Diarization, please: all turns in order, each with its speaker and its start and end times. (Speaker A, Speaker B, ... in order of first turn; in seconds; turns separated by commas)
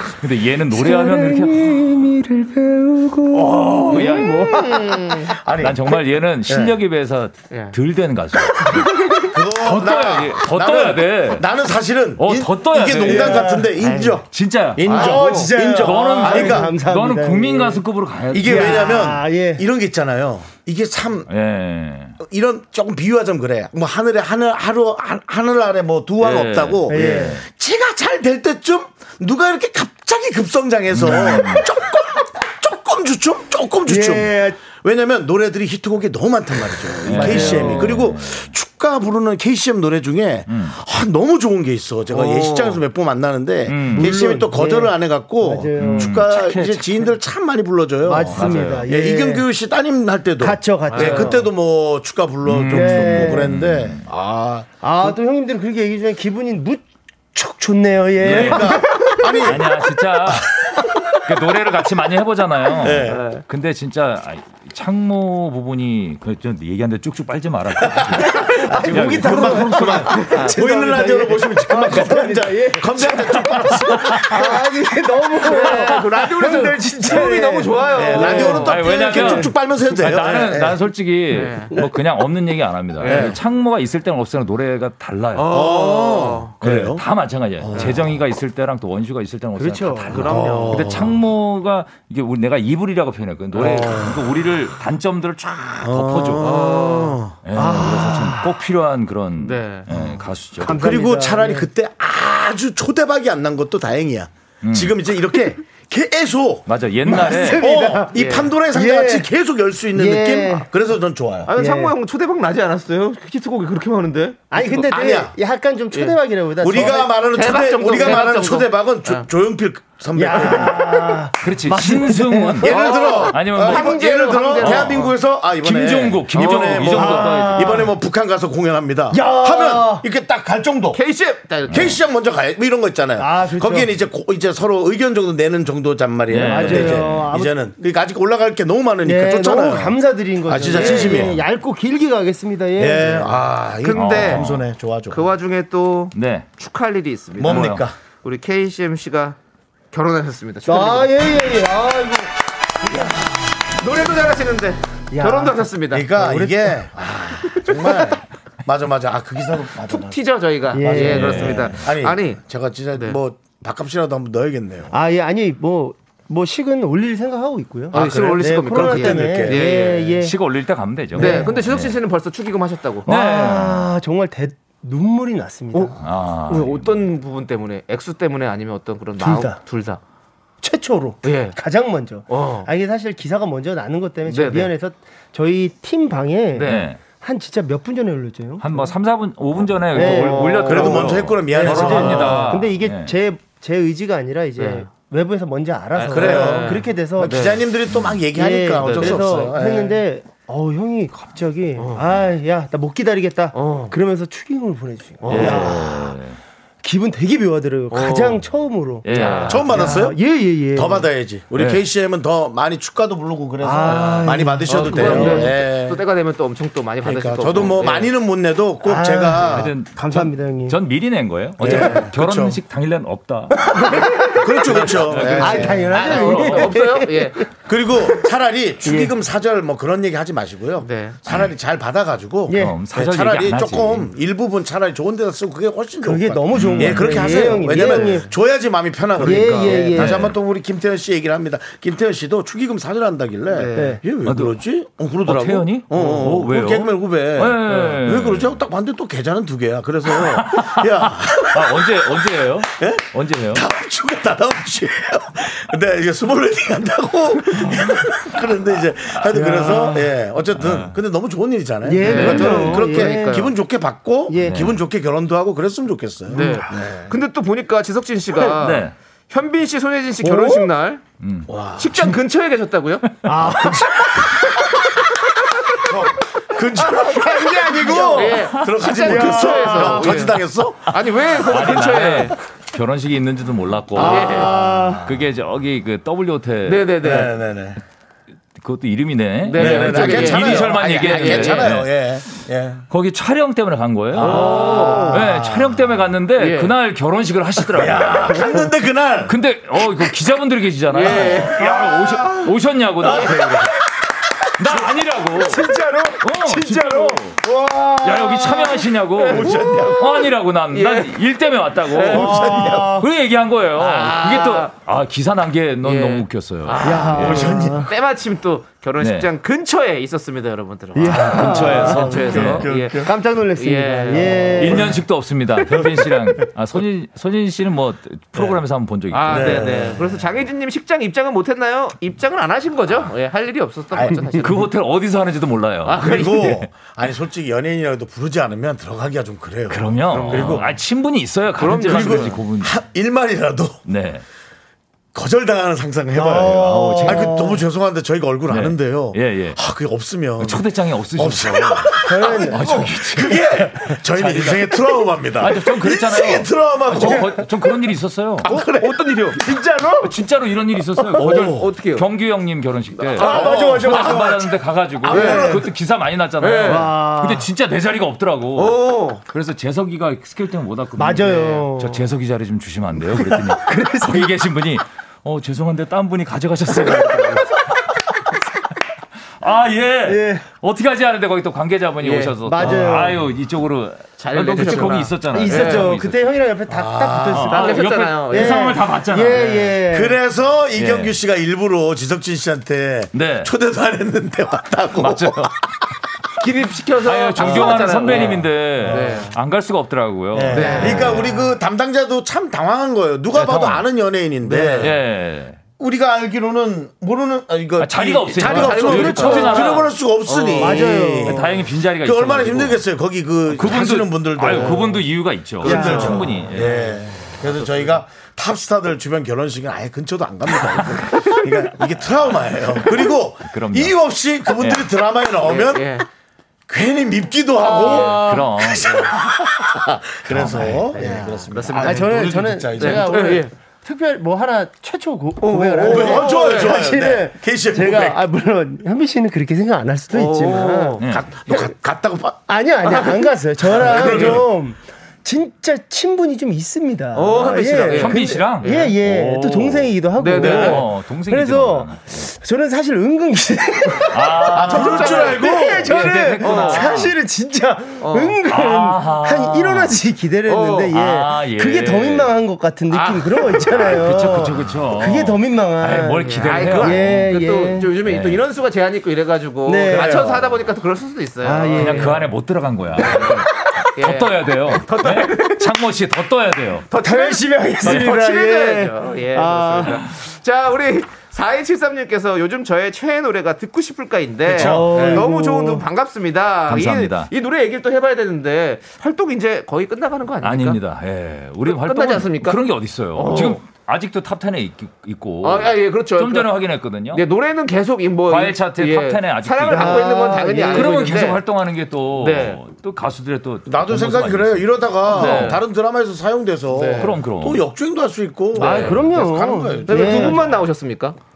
Speaker A: 0.2-2.0, Speaker B: 0.7-5.3, Speaker A: 3.4-4.4, Speaker C: 3.6-6.8, Speaker A: 5.6-8.9, Speaker D: 7.5-7.8, Speaker B: 8.5-9.3, Speaker C: 9.3-16.8, Speaker A: 9.5-11.5, Speaker A: 12.2-13.5, Speaker B: 13.0-13.7, Speaker D: 13.8-14.2, Speaker A: 14.2-19.1, Speaker D: 14.8-15.5, Speaker B: 14.9-19.6, Speaker C: 18.3-21.3, Speaker A: 21.3-22.2, Speaker C: 22.2-55.1, Speaker A: 26.2-27.4, Speaker B: 26.9-27.4, Speaker A: 30.9-31.7, Speaker B: 33.9-34.6, Speaker A: 37.0-38.5, Speaker B: 37.1-38.0, Speaker A: 40.5-40.7, Speaker D: 42.1-42.8, Speaker A: 43.7-44.1, Speaker B: 43.9-46.2, Speaker A: 45.8-47.1, Speaker B: 48.0-49.4, Speaker A: 48.3-48.9, Speaker B: 50.4-51.4, Speaker D: 50.9-51.4, Speaker A: 52.4-54.0, Speaker B: 52.7-53.5, Speaker B: 54.8-56.8, Speaker B: 57.3-59.3, Speaker A: 58.2-58.8, Speaker C: 58.2-59.7, Speaker A: 59.4-60.6, Speaker A: 61.1-70.3, Speaker C: 62.8-63.2, Speaker D: 63.1-63.4, Speaker C: 67.8-74.6, Speaker B: 68.1-79.5, Speaker A: 73.8-74.5, Speaker D: 75.5-78.8, Speaker A: 75.7-76.0, Speaker C: 77.9-80.8, Speaker A: 78.5-85.5, Speaker D: 81.3-81.7, Speaker D: 83.0-83.3, Speaker C: 83.0-83.3, Speaker D: 85.3-86.5, Speaker C: 85.5-87.0, Speaker A: 86.6-96.7, Speaker C: 87.6-88.1, Speaker B: 89.5-90.2, Speaker D: 90.1-90.8, Speaker C: 90.2-91.2, Speaker C: 93.5-94.2, Speaker C: 95.8-97.4, Speaker D: 96.4-97.2, Speaker A: 97.4-100.8, Speaker B: 97.5-98.6, Speaker D: 99.4-99.9, Speaker B: 100.6-101.7, Speaker C: 100.7-111.5, Speaker A: 104.6-105.0, Speaker A: 106.7-107.7, Speaker B: 107.0-109.3, Speaker D: 108.1-108.5, Speaker B: 109.9-110.7, Speaker D: 111.5-114.8, Speaker B: 111.5-111.9, Speaker B: 114.5-117.2, Speaker C: 114.9-115.3, Speaker C: 116.6-121.2, Speaker D: 117.2-119.2, Speaker B: 120.1-122.7, Speaker A: 121.4-127.9, Speaker C: 122.6-131.0, Speaker D: 122.7-125.1, Speaker B: 124.1-124.8, Speaker D: 126.3-127.1, Speaker B: 126.8-127.9, Speaker B: 129.1-130.0, Speaker D: 130.9-132.0, Speaker C: 131.7-141.4, Speaker B: 133.2-133.9, Speaker A: 136.3-137.3, Speaker B: 136.4-137.6, Speaker B: 139.0-143.4, Speaker D: 140.7-141.2, Speaker C: 142.8-145.2, Speaker D: 143.8-144.4, Speaker A: 143.9-144.6, Speaker D: 145.1-149.4, Speaker A: 146.1-146.5, Speaker C: 147.4-147.9, Speaker A: 147.4-147.8, Speaker D: 149.9-151.1, Speaker B: 150.7-152.3, Speaker B: 152.8-153.1, Speaker D: 153.8-156.1, Speaker B: 155.1-156.8, Speaker C: 155.9-160.2, Speaker D: 159.9-162.4, Speaker B: 160.7-161.5, Speaker C: 160.8-164.9, Speaker A: 160.9-161.8, Speaker B: 164.9-170.4, Speaker C: 167.9-169.6, Speaker D: 167.9-170.1, Speaker A: 170.2-171.9, Speaker B: 171.1-171.6, Speaker D: 171.1-173.1, Speaker A: 173.1-173.9, Speaker B: 173.1-176.0, Speaker A: 176.0-176.9, Speaker D: 176.5-180.0, Speaker B: 179.2-179.6, Speaker B: 180.6-188.9, Speaker D: 181.2-181.6, Speaker D: 182.3-182.7, Speaker D: 184.3-184.7, Speaker D: 186.5-186.8, Speaker A: 186.6-187.0, Speaker A: 188.6-193.2, Speaker B: 189.9-197.4, Speaker D: 189.9-191.0, Speaker C: 190.6-192.4, Speaker D: 191.8-192.5, Speaker D: 194.6-194.9, Speaker D: 195.9-197.6, Speaker C: 196.1-200.0, Speaker A: 197.9-198.2, Speaker B: 198.3-206.2, Speaker D: 198.8-199.2, Speaker D: 203.5-203.9, Speaker D: 205.2-205.7, Speaker A: 205.3-206.4, Speaker B: 206.8-211.1, Speaker D: 207.9-208.4, Speaker A: 209.0-210.0, Speaker D: 209.1-209.6, Speaker C: 209.5-210.2, Speaker C: 210.7-216.0, Speaker A: 211.5-211.8, Speaker B: 213.6-215.5, Speaker D: 213.9-218.1, Speaker A: 215.0-215.4, Speaker C: 217.0-219.7, Speaker B: 218.8-220.8, Speaker A: 219.5-226.8, Speaker C: 221.6-222.6, Speaker D: 221.7-222.0, Speaker B: 223.6-227.5, Speaker C: 224.3-225.9, Speaker D: 225.9-227.4, Speaker C: 227.7-252.1, Speaker B: 228.8-229.1, Speaker D: 230.8-231.2, Speaker B: 232.5-232.8, Speaker A: 232.5-234.1, Speaker B: 236.0-238.3, Speaker A: 236.5-237.2, Speaker D: 237.7-238.3, Speaker D: 239.2-239.8, Speaker B: 239.2-240.3, Speaker A: 239.8-240.3, Speaker D: 243.5-243.9, Speaker B: 243.7-244.0, Speaker A: 244.2-244.6, Speaker A: 245.2-248.5, Speaker A: 250.1-253.6, Speaker C: 252.6-267.1, Speaker B: 259.3-260.2, Speaker A: 260.5-260.9, Speaker B: 261.8-263.5, Speaker D: 262.0-263.5, Speaker A: 262.1-262.5, Speaker B: 264.3-264.7, Speaker A: 264.4-264.8, Speaker D: 266.3-271.0, Speaker B: 266.3-266.6, Speaker A: 268.5-268.9, Speaker B: 270.2-270.7, Speaker A: 271.2-271.5, Speaker C: 271.5-272.1, Speaker D: 271.8-273.1, Speaker B: 273.2-274.6, Speaker A: 273.3-273.7, Speaker C: 273.5-274.2, Speaker C: 275.8-280.9, Speaker B: 276.8-280.2, Speaker D: 277.8-282.3, Speaker A: 281.3-287.0, Speaker D: 283.9-284.5, Speaker B: 283.9-285.1, Speaker C: 284.0-285.2, Speaker D: 286.6-287.3, Speaker C: 287.0-287.8, Speaker A: 288.6-291.9, Speaker D: 289.4-291.7, Speaker C: 289.6-292.9, Speaker A: 292.9-298.5, Speaker C: 294.1-295.8, Speaker D: 294.2-295.2, Speaker B: 294.5-295.2, Speaker D: 296.4-296.7, Speaker C: 297.7-299.4, Speaker B: 298.3-298.6, Speaker A: 299.2-303.8, Speaker D: 300.9-301.6, Speaker B: 301.6-302.5, Speaker C: 303.1-303.4, Speaker A: 304.6-307.4, Speaker B: 304.7-309.9, Speaker C: 307.4-308.1, Speaker A: 308.0-317.5, Speaker D: 309.2-309.8, Speaker C: 309.3-310.2, Speaker D: 310.7-311.1, Speaker D: 311.9-312.3, Speaker C: 312.1-312.9, Speaker B: 312.1-313.1, Speaker D: 313.8-314.7, Speaker D: 315.8-324.9, Speaker B: 316.8-317.9, Speaker C: 317.1-317.9, Speaker A: 319.0-319.3, Speaker B: 320.9-325.0, Speaker A: 321.1-322.7, Speaker C: 321.3-323.1, Speaker A: 324.6-330.1, Speaker D: 329.1-334.7, Speaker C: 329.3-330.0, Speaker A: 334.4-336.5, Speaker D: 335.8-336.6, Speaker C: 336.0-340.7, Speaker A: 339.7-342.8, Speaker D: 340.1-340.7, Speaker D: 341.6-342.4, Speaker C: 341.8-343.8, Speaker A: 343.9-344.2, Speaker C: 345.1-350.6, Speaker B: 346.1-347.6, Speaker A: 346.5-347.4, Speaker A: 348.5-349.6, Speaker A: 350.4-358.5, Speaker C: 351.1-357.4, Speaker B: 352.0-353.0, Speaker C: 358.4-358.9, Speaker D: 358.4-359.4, Speaker B: 359.3-360.1, Speaker A: 360.0-377.9, Speaker B: 361.0-361.3, Speaker C: 361.2-361.6, Speaker D: 361.2-362.1, Speaker D: 363.0-363.6, Speaker B: 363.2-364.5, Speaker C: 363.2-365.6, Speaker B: 365.1-365.6, Speaker D: 365.1-365.6, Speaker D: 366.4-366.9, Speaker B: 366.6-367.5, Speaker D: 368.5-369.2, Speaker B: 371.0-372.0, Speaker D: 371.2-371.6, Speaker B: 373.2-374.4, Speaker A: 379.4-386.2, Speaker B: 380.0-380.5, Speaker D: 382.0-382.9, Speaker B: 382.4-383.2, Speaker D: 384.2-385.9, Speaker B: 385.2-390.2, Speaker C: 386.7-387.6, Speaker A: 387.3-389.7, Speaker D: 387.5-388.8, Speaker D: 389.3-389.7, Speaker C: 389.9-395.9, Speaker A: 390.7-391.1, Speaker A: 393.1-393.5, Speaker A: 395.0-395.5, Speaker D: 396.4-399.3, Speaker A: 397.0-401.2, Speaker C: 397.6-399.1, Speaker C: 400.3-404.9, Speaker D: 400.5-401.4, Speaker B: 400.6-400.9, Speaker A: 403.3-403.8, Speaker D: 404.4-404.9, Speaker A: 404.8-405.6, Speaker C: 405.8-415.1, Speaker A: 407.8-409.9, Speaker D: 408.4-410.9, Speaker B: 409.2-409.6, Speaker B: 410.6-411.6, Speaker A: 411.2-412.8, Speaker A: 413.5-416.8, Speaker C: 415.6-425.9, Speaker B: 415.6-416.4, Speaker D: 416.5-418.0, Speaker A: 423.5-424.0, Speaker A: 424.5-424.9, Speaker D: 425.4-426.1, Speaker C: 426.7-433.4, Speaker D: 427.6-429.1, Speaker A: 427.8-428.9, Speaker A: 430.3-431.0, Speaker D: 430.9-432.1, Speaker B: 430.9-441.0, Speaker D: 432.7-433.5, Speaker D: 435.4-436.7, Speaker C: 435.8-438.2, Speaker D: 440.1-441.0, Speaker A: 441.0-441.3, Speaker C: 441.0-442.4, Speaker B: 442.5-467.9, Speaker C: 443.7-444.5, Speaker D: 443.9-444.4, Speaker D: 447.1-448.9, Speaker A: 447.4-452.2, Speaker D: 450.2-450.9, Speaker A: 454.1-457.1, Speaker C: 454.5-455.9, Speaker D: 454.6-457.0, Speaker D: 458.0-458.4, Speaker A: 458.5-460.0, Speaker D: 460.5-460.9, Speaker A: 460.9-462.4, Speaker D: 462.9-463.8, Speaker A: 463.7-467.3, Speaker D: 466.2-472.2, Speaker A: 468.0-468.4, Speaker B: 469.6-470.4, Speaker B: 471.4-472.3, Speaker A: 471.7-476.9, Speaker D: 473.1-473.3, Speaker D: 473.9-475.7, Speaker D: 476.9-490.8, Speaker B: 476.9-480.0, Speaker A: 477.9-478.1, Speaker C: 484.5-485.2, Speaker B: 484.5-485.9, Speaker A: 486.7-487.3, Speaker A: 490.4-497.2, Speaker D: 491.6-492.6, Speaker D: 493.1-493.6, Speaker D: 495.4-496.5, Speaker D: 497.1-501.4, Speaker A: 498.3-505.6, Speaker B: 499.6-501.2, Speaker D: 502.2-502.6, Speaker C: 503.7-510.4, Speaker D: 505.1-505.6, Speaker D: 506.7-507.1, Speaker A: 506.9-507.6, Speaker D: 508.6-508.9, Speaker B: 508.6-510.4, Speaker A: 508.7-509.0, Speaker D: 509.9-511.2